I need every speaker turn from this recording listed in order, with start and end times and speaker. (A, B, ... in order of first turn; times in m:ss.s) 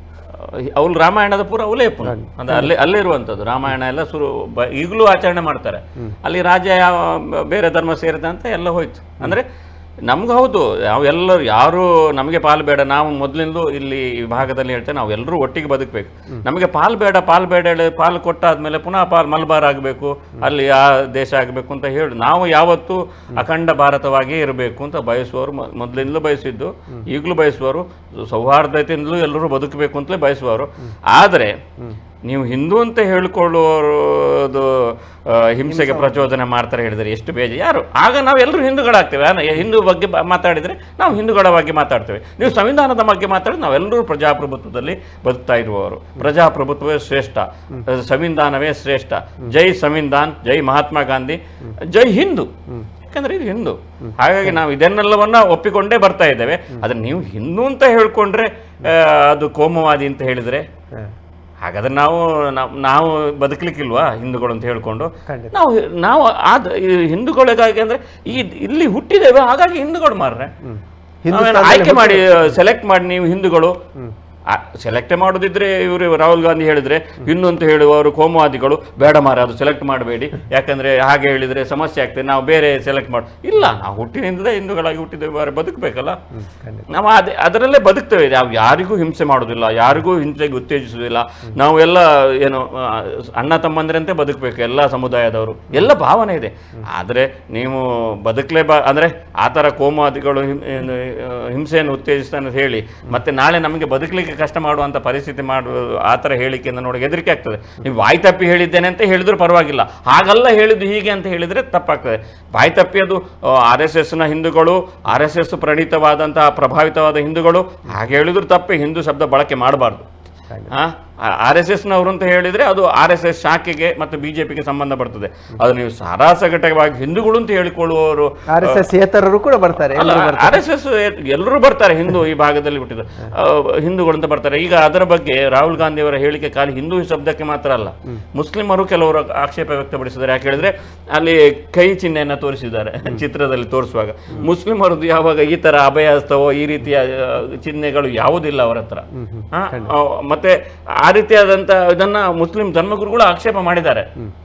0:00.3-0:09.4 A
0:02.0-0:02.7 B
0:10.1-0:31.5 A
0:32.2-0:52.5 A
0:35.7-0:36.2 B
0:53.1-1:00.6 A
0:54.0-0:54.6 B
1:01.6-1:10.5 A
1:05.3-1:05.5 B
1:10.6-1:12.5 B
1:11.3-1:13.7 A
1:14.5-1:26.2 A
1:26.4-1:26.8 B
1:26.9-2:00.0 A
2:00.7-2:08.8 A
2:08.5-2:10.6 B
2:09.9-2:34.1 A
2:29.1-2:30.0 B